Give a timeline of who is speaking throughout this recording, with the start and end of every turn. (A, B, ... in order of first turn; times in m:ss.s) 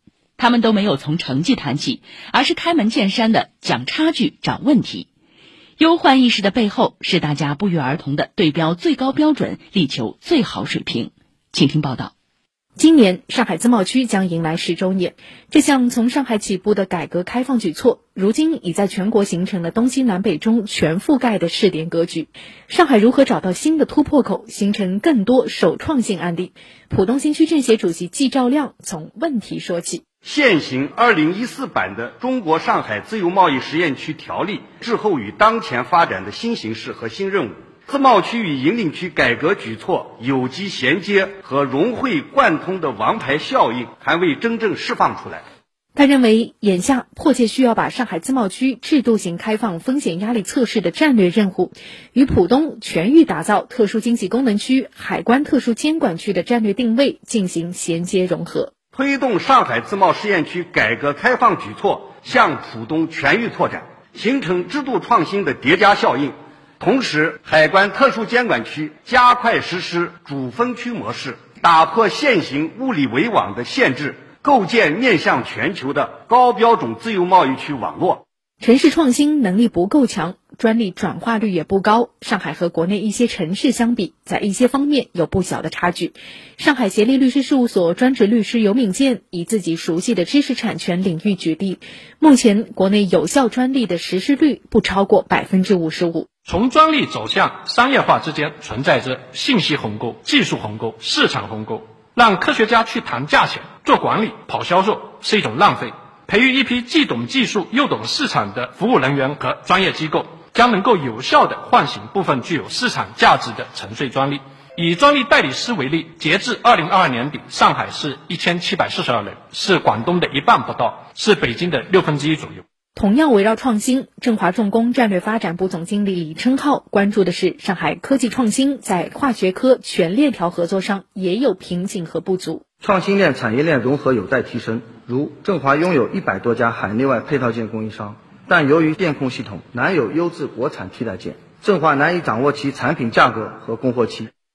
0:00.4-0:05.1 A
0:05.8-0:12.1 A
0:12.8-0:30.0 B
0:30.2-0:45.4 C
0:46.0-0:58.7 B
0:58.9-1:18.2 C
1:18.6-1:36.3 B
1:36.5-2:02.6 D
2:03.0-2:12.6 B
2:12.8-2:24.3 E